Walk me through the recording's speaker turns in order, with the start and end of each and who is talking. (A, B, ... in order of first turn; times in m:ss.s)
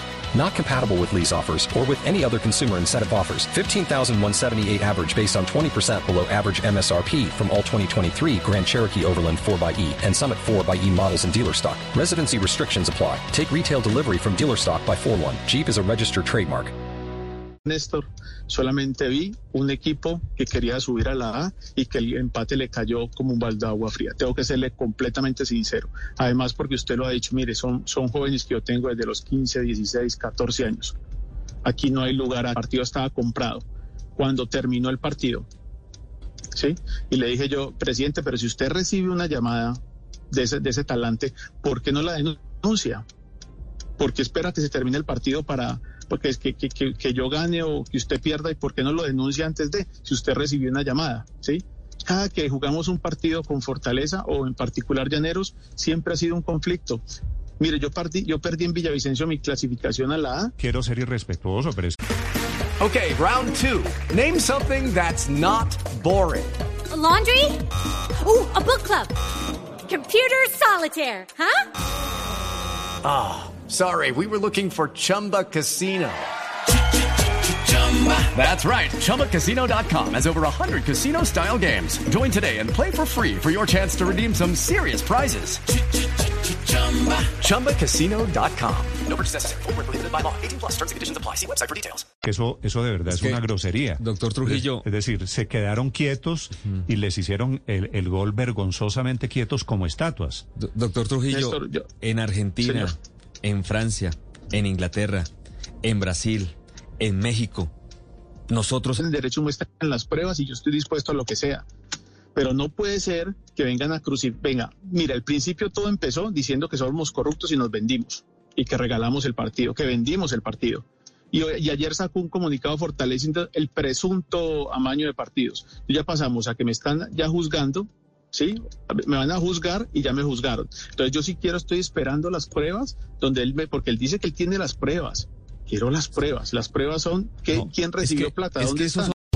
0:00.3-0:16.7 A
0:17.6-0:30.9 B
0:31.6-0:33.6 B
0:34.2-0:35.5 B
0:36.5-0:39.8 B
0:40.3-0:43.0 B
0:44.0-0:57.0 B
0:57.6-1:00.5 B
1:00.6-1:02.0 C
1:02.8-1:06.5 D
1:06.9-1:07.6 E
1:08.2-1:09.1 E
1:09.9-1:11.6 E
1:13.0-1:16.3 D
1:17.7-1:25.6 D
1:26.9-1:32.0 D
1:32.2-1:40.4 C
1:34.0-1:34.8 F
1:40.6-1:45.3 F
1:41.3-1:41.9 B
1:42.6-1:42.9 B
1:45.8-1:47.7 F
1:48.5-1:49.0 F
1:49.0-1:51.6 B
1:52.3-2:19.1 B
2:18.0-2:19.1 C